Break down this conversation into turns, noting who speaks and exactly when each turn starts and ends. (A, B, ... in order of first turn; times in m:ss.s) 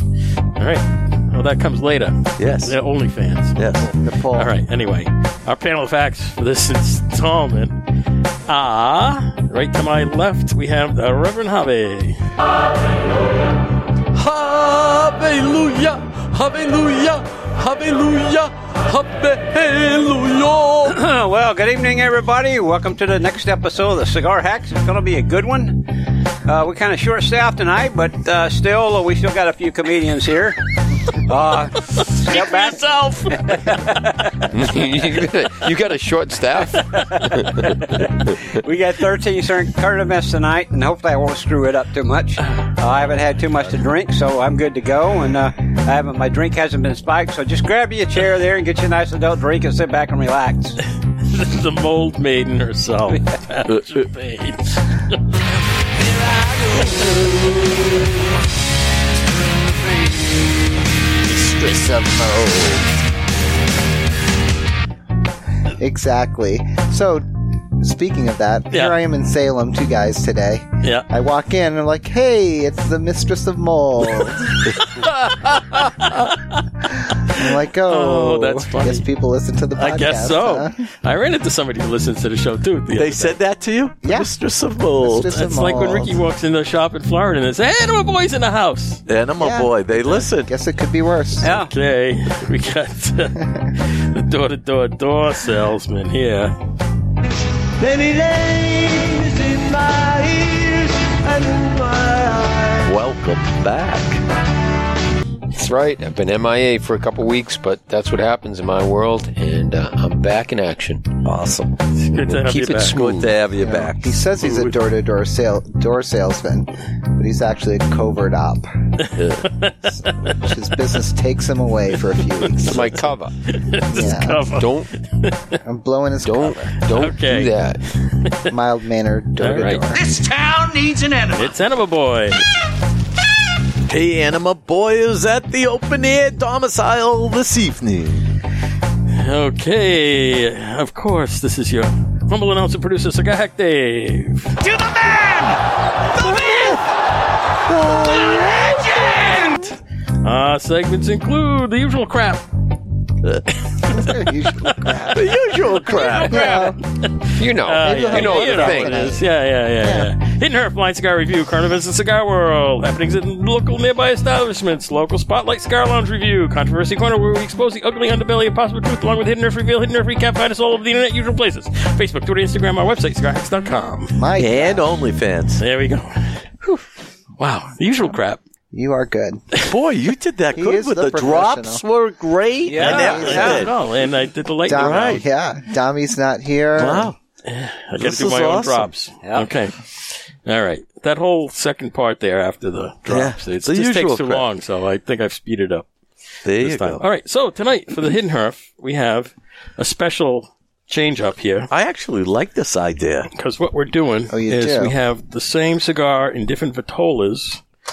0:00.5-0:07.9 A
0:02.4-0:02.8 B
0:03.6-0:03.9 B
0:04.0-0:04.5 C
0:08.4-0:12.2 A
0:14.1-0:21.0 B
0:20.8-0:25.9 D
0:26.4-0:34.4 D
0:32.0-0:33.6 A
0:34.5-0:38.3 E
0:36.9-0:50.8 D
0:37.7-0:38.0 A
0:51.2-0:55.2 A
0:56.1-0:58.0 B
1:01.2-1:02.8 B
1:05.7-1:14.7 C
1:08.7-1:09.0 A
1:10.8-1:11.1 A
1:14.2-1:19.0 A
1:17.0-1:20.8 C
1:19.8-1:23.4 A
1:22.9-1:25.4 B
1:24.0-1:24.3 C
1:25.0-1:26.2 C
1:25.3-1:29.0 A
1:29.1-1:30.5 B
1:29.4-1:31.5 C
1:31.4-1:31.7 D
1:31.5-1:36.6 A
1:33.4-1:33.7 C
1:37.8-1:44.2 B
1:45.5-1:51.2 E
1:51.2-1:51.8 B
1:52.0-1:53.0 A
1:52.2-1:53.3 E
1:52.9-1:54.7 B
1:53.6-1:58.7 C
1:59.0-2:00.5 A
1:59.2-1:59.5 E
2:00.0-2:03.0 C
2:02.1-2:05.6 A
2:02.7-2:03.3 E
2:03.9-2:04.4 C
2:04.4-2:04.9 E
2:05.6-2:06.7 C
2:06.2-2:08.0 E
2:06.9-2:07.5 A
2:08.0-2:08.5 A
2:08.4-2:10.1 C
2:09.4-2:09.9 A
2:10.1-2:11.3 B
2:11.2-2:12.4 A
2:13.8-2:18.3 B
2:19.1-2:24.7 A
2:24.7-2:25.6 B
2:26.1-2:26.8 B
2:27.6-2:29.8 B
2:30.2-2:32.4 A
2:33.8-2:35.2 A
2:33.9-2:35.3 C
2:35.1-2:36.7 B
2:35.7-2:54.2 A
2:36.2-2:36.8 C
2:37.4-2:39.2 E
2:37.8-2:39.2 C
2:39.8-2:40.1 C
2:54.1-2:54.8 C
2:54.4-2:55.6 B
2:55.6-2:56.8 A
2:57.4-2:58.4 A
2:58.7-2:59.4 C
2:59.6-3:03.7 B
3:00.5-3:01.8 C
3:02.6-3:03.7 D
3:02.8-3:05.2 A
3:02.8-3:03.6 C
3:04.7-3:07.1 C
3:04.7-3:05.2 B
3:06.8-3:07.2 B
3:07.4-3:15.9 A
3:08.0-3:08.9 B
3:09.2-3:09.5 D
3:13.1-3:14.4 B
3:16.4-3:17.0 B
3:16.6-3:21.7 A
3:21.7-3:23.3 B
3:23.3-3:27.6 A
3:24.3-3:24.9 C